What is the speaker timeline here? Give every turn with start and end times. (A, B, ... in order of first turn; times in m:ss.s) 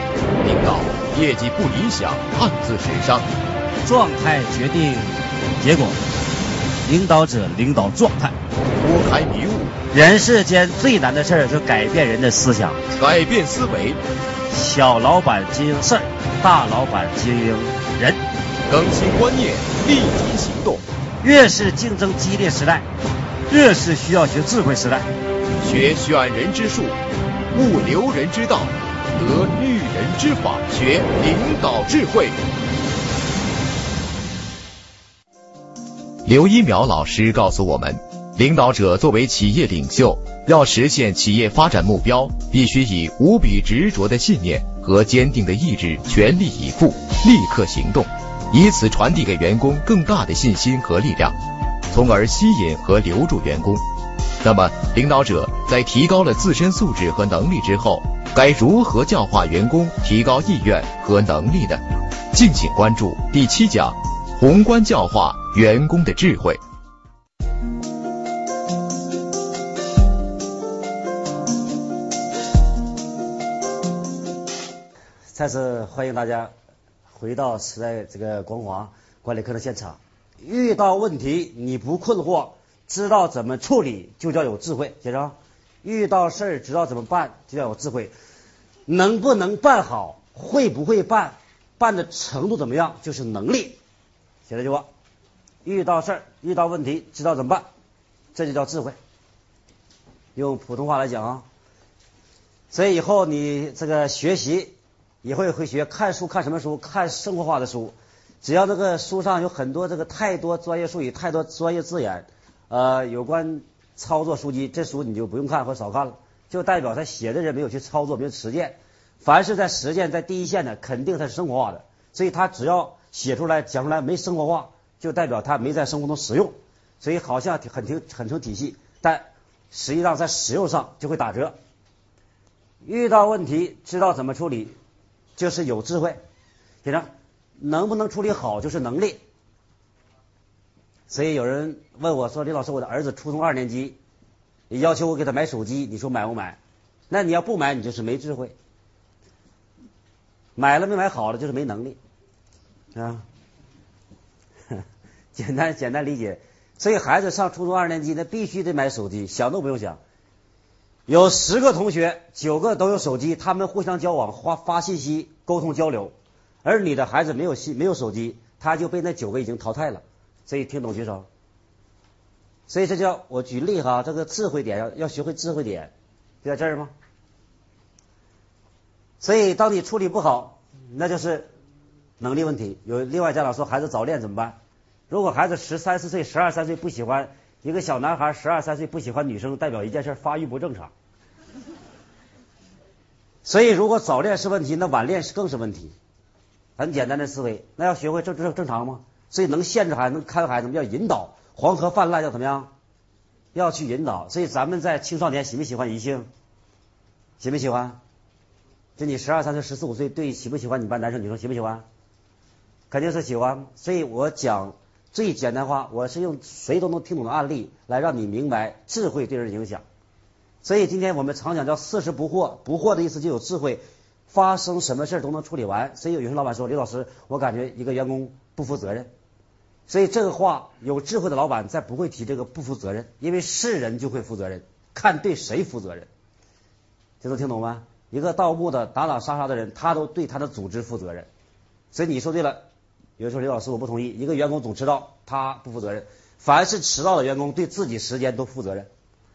0:00.4-0:03.2 A
0:03.8-0:06.0 B
0:06.8-0:08.4 B
0:08.8-0:09.8 A
0:09.9-0:12.8 B
0:12.9-0:14.0 A
0:14.5-0:18.2 B
0:18.7-0:20.8 A
0:21.2-0:22.9 B
0:23.5-0:25.1 B
0:25.6-0:27.0 A
0:27.5-0:32.4 A
0:36.2-0:51.4 A
0:51.9-0:53.8 A
0:54.4-1:06.6 A
1:15.3-1:16.5 B
1:17.1-1:28.1 B
1:28.9-1:33.8 B
1:34.5-1:34.9 B
1:35.6-1:37.7 B
1:38.3-1:39.0 B
1:40.3-1:41.4 B
1:42.7-2:11.5 B
2:12.8-2:14.7 B
2:15.4-2:16.2 B
2:16.8-2:19.2 B
2:21.1-2:24.0 B
2:24.7-2:26.6 B
2:27.1-2:28.5 B
2:30.6-2:32.0 B
2:32.9-2:33.2 B
2:35.3-2:40.0 B
2:41.1-2:51.3 B
2:52.7-2:55.9 B
2:56.4-2:56.9 B
2:59.2-3:01.5 B
3:02.2-3:04.6 B
3:05.1-3:10.9 B
3:13.4-3:15.9 B
3:16.8-3:22.7 B
3:23.5-3:26.3 B
3:27.4-3:28.0 B
3:29.0-3:31.8 B
3:32.9-3:39.8 B
3:40.6-3:49.1 B
3:49.9-3:56.1 B
3:57.2-4:01.3 B
4:01.9-4:02.6 B
4:03.2-4:08.9 B